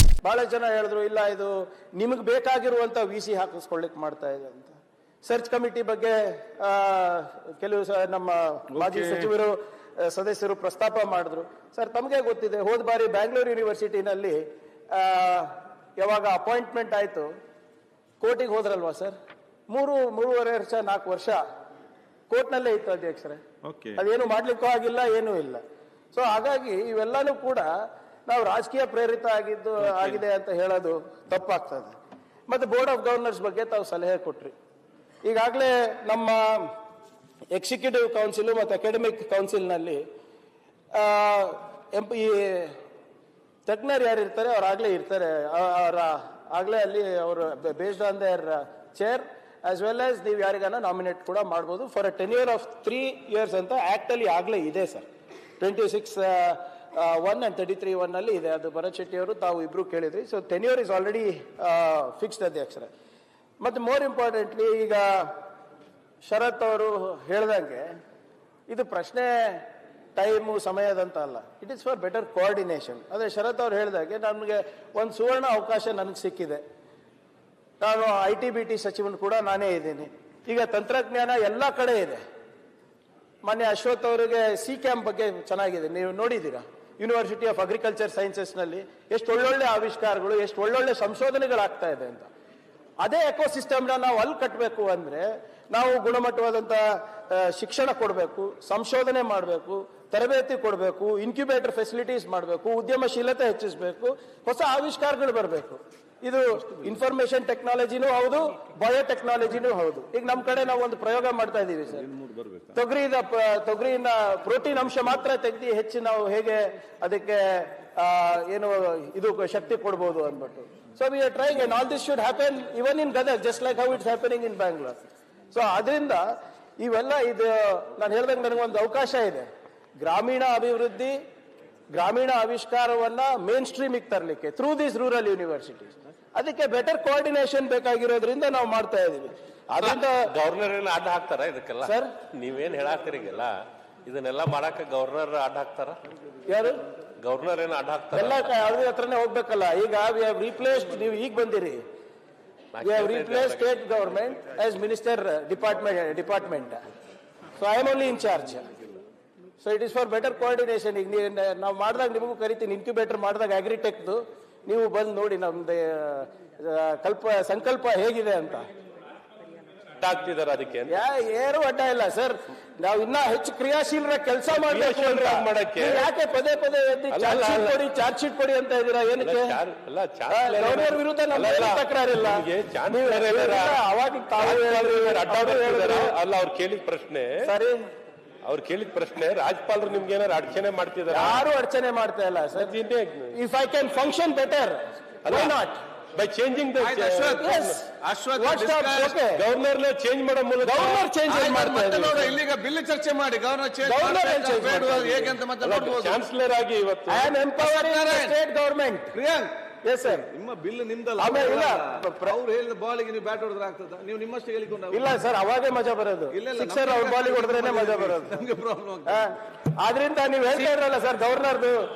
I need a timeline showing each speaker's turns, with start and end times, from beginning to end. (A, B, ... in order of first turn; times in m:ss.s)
0:00.2-0:17.3 A
0:08.8-0:09.3 B
0:18.2-0:19.1 A
0:19.7-0:21.4 A
0:22.3-0:23.4 A
0:23.6-0:24.0 B
0:24.0-0:25.6 A
0:26.1-0:27.7 A
0:28.3-0:31.9 A
0:32.5-0:34.5 A
0:35.2-0:36.7 A
0:37.5-0:40.0 A
0:40.9-0:42.8 A
0:43.6-0:55.1 A
0:55.6-1:02.9 A
1:03.6-1:05.3 A
1:06.2-1:07.9 A
1:08.7-1:09.6 A
1:10.2-1:16.6 A
1:17.8-1:22.2 A
1:23.4-1:32.3 A
1:33.0-1:52.1 A
1:52.2-1:52.7 B
1:52.7-2:05.0 A
2:05.5-2:06.3 A
2:06.8-2:09.4 A
2:10.0-2:11.2 A
2:11.9-2:20.2 A
2:19.8-2:26.0 C
2:21.8-2:22.1 A
2:26.5-2:26.8 A
2:27.2-2:28.5 C
2:28.1-2:31.8 A
2:32.7-2:33.6 C
2:32.8-2:36.8 A
2:37.6-2:38.7 A
2:39.6-2:48.6 A
2:50.0-2:51.0 C
2:50.9-2:59.6 A
2:54.5-2:56.1 C
2:57.1-2:57.8 C
2:59.2-3:03.8 C
3:00.3-3:06.2 A
3:04.4-3:07.5 C
3:07.4-3:07.8 A
3:08.4-3:11.4 C
3:11.1-3:12.8 A
3:12.6-3:13.3 C
3:13.3-3:15.8 A
3:15.2-3:15.5 C
3:16.1-3:17.8 C
3:16.8-3:19.2 B
3:17.4-3:17.8 A
3:18.4-3:19.4 A
3:19.3-3:21.1 C
3:20.6-3:22.4 A
3:21.2-3:26.2 B
3:23.8-3:25.4 A
3:25.6-3:27.3 C
3:27.1-3:29.1 A
3:27.6-3:28.3 B
3:29.1-3:29.5 B
3:29.8-3:30.2 A
3:30.0-3:35.1 B
3:31.2-3:32.4 A
3:34.9-3:38.4 A
3:36.3-3:39.2 B
3:39.0-3:41.8 A